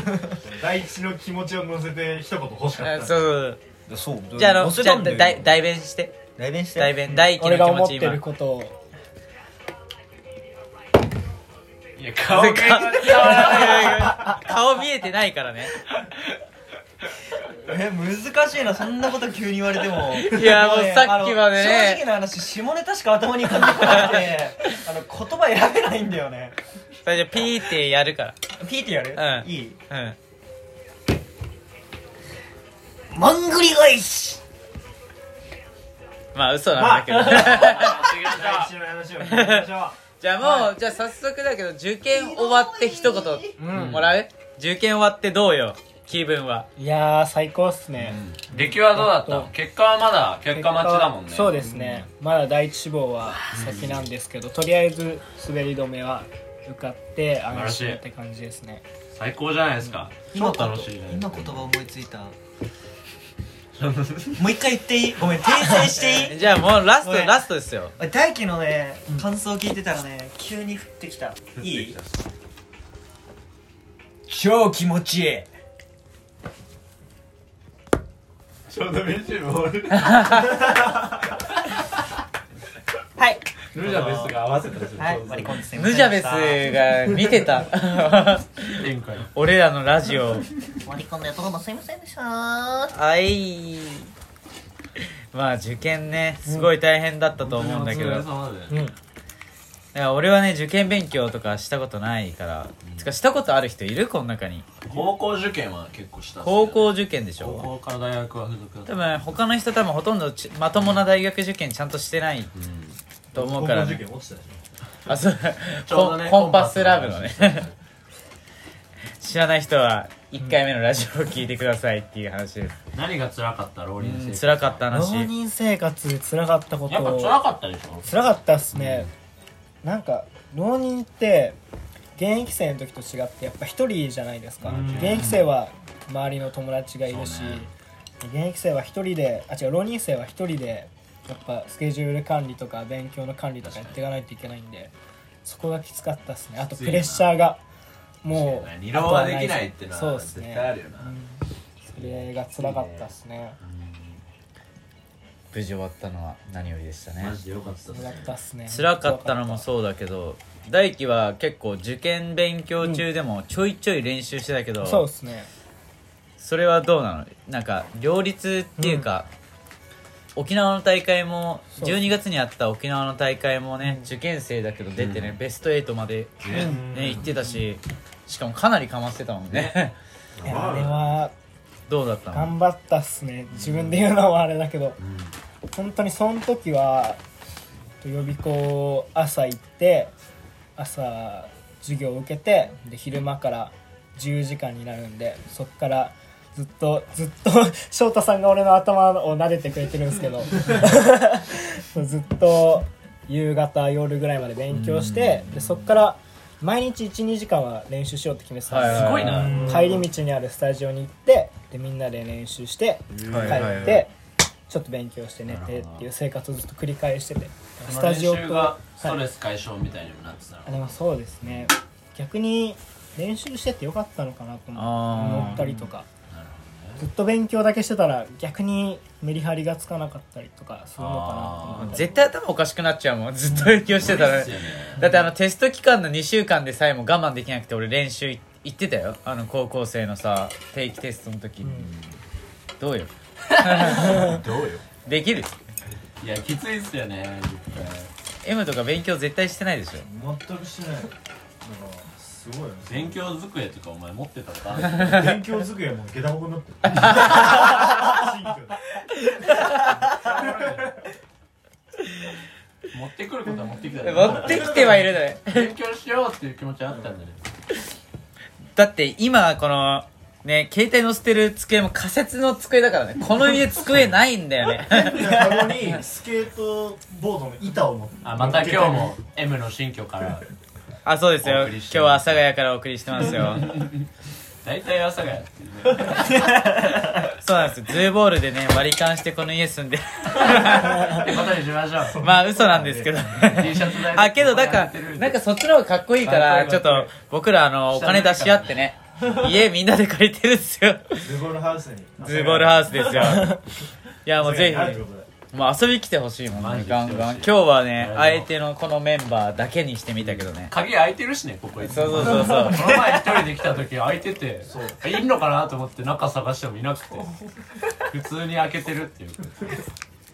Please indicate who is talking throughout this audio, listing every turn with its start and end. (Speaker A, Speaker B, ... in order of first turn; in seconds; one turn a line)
Speaker A: 0.3-3.2
Speaker B: 2.8-3.6
Speaker C: 3.9-5.6
Speaker B: 4.3-6.2
Speaker C: 6.4-7.2
Speaker B: 6.7-8.2
Speaker D: 7.1-8.8
Speaker E: 12.0-14.3
Speaker B: 12.3-15.7
Speaker C: 17.6-26.6
Speaker B: 20.1-22.0
Speaker B: 23.7-24.3
Speaker B: 27.0-28.4
Speaker C: 28.5-29.8
Speaker B: 29.1-30.1
Speaker C: 33.1-34.4
Speaker B: 36.3-38.2
Speaker A: 36.7-40.0
Speaker E: 37.3-38.7
Speaker B: 39.2-46.7
Speaker C: 42.1-43.5
Speaker D: 43.6-44.0
Speaker E: 43.7-44.1
Speaker D: 46.8-49.5
Speaker E: 48.0-52.0
Speaker D: 50.5-58.8
Speaker E: 53.4-54.0
Speaker E: 57.5-58.0
Speaker E: 59.1-61.7
Speaker C: 60.3-62.3
Speaker E: 63.8-64.6
Speaker C: 64.4-67.4
Speaker B: 66.2-67.9
Speaker C: 68.0-72.0
Speaker E: 71.6-72.2
Speaker C: 74.3-75.5
Speaker E: 78.7-80.5
Speaker B: 79.9-80.7
Speaker C: 83.2-83.4
Speaker A: 83.7-85.6
Speaker E: 83.7-85.5
Speaker C: 85.0-86.7
Speaker B: 85.7-90.5
Speaker E: 88.7-89.3
Speaker C: 90.8-92.9
Speaker B: 92.9-94.1
Speaker B: 95.3-98.3
Speaker E: 97.4-98.8
Speaker D: 98.7-98.9
Speaker B: 99.9-104.7
Speaker E: 102.8-103.1
Speaker E: 104.8-108.9
Speaker B: 106.4-107.7
Speaker B: 108.8-112.5
Speaker E: 112.5-113.0
Speaker A: 113.3-114.6
Speaker B: 113.3-114.0
Speaker B: 115.1-117.7
Speaker E: 115.8-117.7
Speaker B: 119.2-122.8
Speaker E: 122.9-124.8
Speaker B: 124.0-125.3
Speaker D: 124.9-127.4
Speaker E: 126.9-128.1
Speaker D: 128.0-129.1
Speaker E: 128.7-129.1
Speaker D: 129.8-131.6
Speaker D: 132.2-137.7
Speaker A: 134.7-135.3
Speaker E: 134.7-135.4
Speaker E: 137.1-137.7
Speaker D: 138.2-144.9
Speaker E: 143.6-144.0
Speaker D: 145.4-147.6
Speaker E: 146.8-147.3
Speaker D: 148.2-153.6
Speaker E: 148.3-151.1
Speaker E: 152.0-154.2
Speaker B: 155.5-157.3
Speaker E: 157.2-158.3
Speaker D: 157.9-159.6
Speaker B: 158.7-165.0
Speaker D: 164.8-165.5
Speaker B: 166.4-169.3
Speaker D: 168.8-169.1
Speaker B: 170.3-179.9
Speaker D: 173.8-174.1
Speaker E: 174.9-175.4
Speaker A: 176.5-177.3
Speaker D: 176.5-176.8
Speaker E: 179.5-179.8
Speaker A: 180.4-181.1
Speaker D: 180.4-181.3
Speaker E: 180.5-180.9
Speaker B: 181.9-182.5
Speaker D: 182.3-185.0
Speaker E: 183.6-184.1
Speaker E: 185.0-185.3
Speaker D: 185.7-187.2
Speaker D: 188.0-190.1
Speaker D: 190.8-214.1
Speaker B: 204.7-205.8
Speaker E: 208.7-209.9
Speaker B: 208.7-209.7
Speaker A: 209.2-210.0
Speaker E: 213.2-213.9
Speaker A: 213.2-213.6
Speaker B: 213.3-214.0
Speaker D: 214.7-219.2
Speaker E: 215.4-216.1
Speaker E: 217.8-220.9
Speaker D: 220.7-226.1
Speaker B: 224.8-225.7
Speaker E: 225.2-227.0
Speaker D: 227.0-232.2
Speaker E: 231.0-232.0
Speaker B: 231.8-241.9
Speaker E: 233.9-235.1
Speaker D: 235.0-235.3
Speaker D: 241.6-241.9
Speaker B: 242.8-244.4
Speaker E: 243.6-244.8
Speaker B: 245.0-245.5
Speaker E: 246.2-248.1
Speaker B: 248.4-250.0
Speaker A: 250.0-253.2
Speaker E: 252.8-255.2
Speaker A: 255.0-258.8
Speaker B: 256.9-257.9
Speaker A: 259.7-261.1
Speaker E: 262.9-267.4
Speaker B: 264.0-265.7
Speaker A: 264.2-265.0
Speaker B: 268.8-275.5
Speaker A: 275.0-279.1
Speaker E: 278.2-280.4
Speaker B: 281.0-283.8
Speaker E: 281.4-282.4
Speaker E: 283.2-284.1
Speaker E: 284.6-286.5
Speaker C: 286.2-287.3
Speaker B: 287.4-291.3
Speaker E: 290.4-292.2
Speaker A: 292.1-293.7
Speaker B: 292.2-301.3
Speaker E: 293.4-295.4
Speaker E: 296.2-297.1
Speaker E: 297.9-299.3
Speaker A: 301.2-303.1
Speaker B: 302.2-303.6
Speaker B: 304.2-310.7
Speaker A: 304.4-305.3
Speaker E: 306.5-308.5
Speaker E: 310.2-317.3
Speaker B: 311.9-313.0
Speaker A: 314.6-315.0
Speaker E: 317.9-319.8